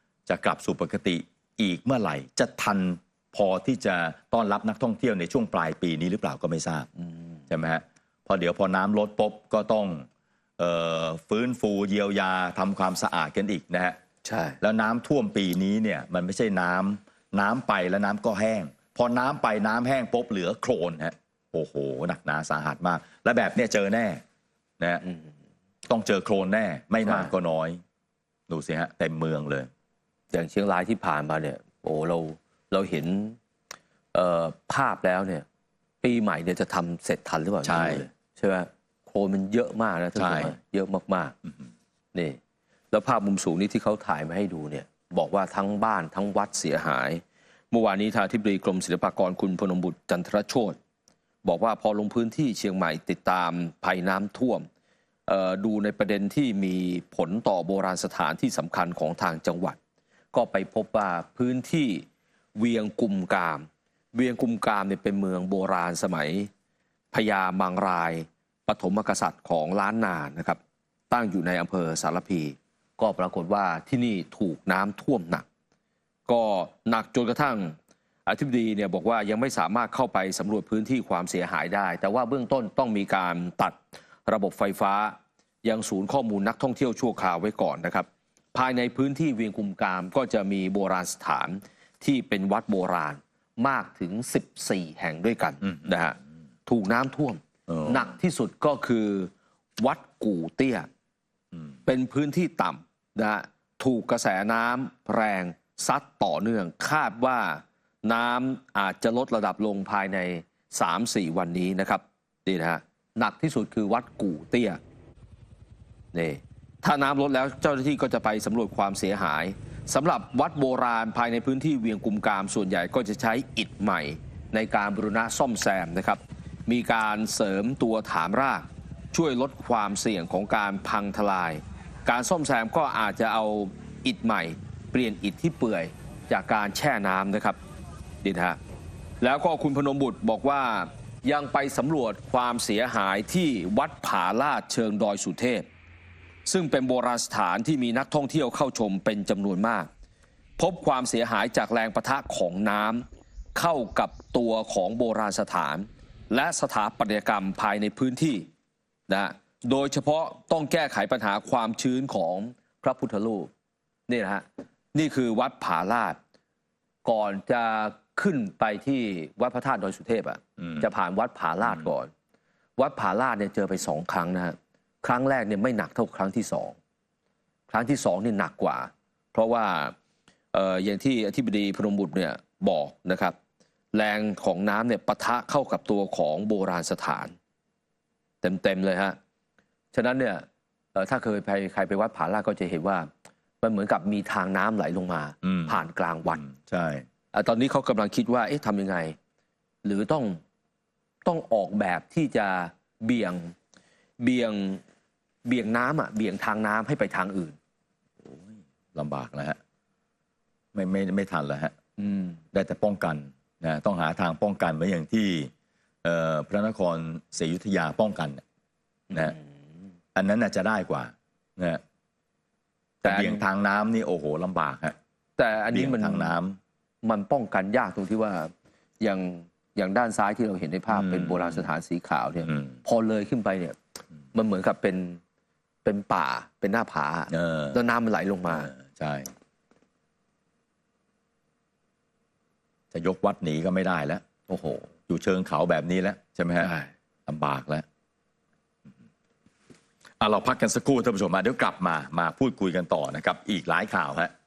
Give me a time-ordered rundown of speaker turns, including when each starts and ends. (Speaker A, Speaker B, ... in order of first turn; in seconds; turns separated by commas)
Speaker A: 0.3-6.9, Speaker B: 7.0-7.4, Speaker A: 7.5-10.1, Speaker A: 10.6-14.0, Speaker B: 14.2-14.6, Speaker A: 14.6-24.2, Speaker B: 25.0-25.3, Speaker A: 25.9-27.8, Speaker B: 27.0-27.3, Speaker A: 28.5-29.7, Speaker B: 30.3-33.4, Speaker B: 34.1-35.4, Speaker B: 36.0-41.3, Speaker A: 37.6-38.1, Speaker A: 40.2-40.6, Speaker B: 42.1-42.4, Speaker B: 42.9-50.8, Speaker B: 51.4-54.7, Speaker B: 55.3-59.8, Speaker B: 60.3-66.5, Speaker B: 67.1-70.6, Speaker B: 71.1-75.5, Speaker B: 76.3-100.9, Speaker A: 95.6-96.0, Speaker A: 97.7-98.1, Speaker B: 101.8-114.8, Speaker B: 116.1-137.6, Speaker B: 138.2-138.6, Speaker B: 139.2-145.7, Speaker B: 146.4-149.9, Speaker B: 150.6-158.5, Speaker B: 159.1-163.5, Speaker B: 164.1-166.2, Speaker B: 167.0-172.1, Speaker A: 170.6-170.9, Speaker A: 171.6-171.9, Speaker B: 172.8-176.8, Speaker B: 177.7-179.9, Speaker B: 180.5-183.3, Speaker B: 183.9-187.3, Speaker B: 188.4-189.2, Speaker B: 189.9-193.1, Speaker B: 193.6-196.4, Speaker A: 195.4-197.0, Speaker B: 197.3-199.2, Speaker B: 199.8-200.4, Speaker B: 201.2-203.5, Speaker B: 204.2-204.8, Speaker B: 205.4-207.6, Speaker A: 208.2-209.6, Speaker A: 210.7-211.7, Speaker B: 212.0-212.4, Speaker A: 212.5-215.5, Speaker A: 216.0-218.4, Speaker B: 219.1-219.6, Speaker A: 220.1-221.8, Speaker A: 223.0-224.9, Speaker B: 223.0-223.4, Speaker B: 225.4-226.4, Speaker A: 225.7-226.6, Speaker B: 227.0-233.8, Speaker A: 230.9-231.7, Speaker A: 232.5-232.8, Speaker B: 234.3-235.2, Speaker B: 235.8-238.7, Speaker A: 237.3-237.8, Speaker A: 238.5-239.3, Speaker A: 242.9-244.2, Speaker B: 244.5-244.9, Speaker A: 245.1-246.7, Speaker B: 246.6-246.9, Speaker A: 247.3-247.8, Speaker A: 250.2-254.3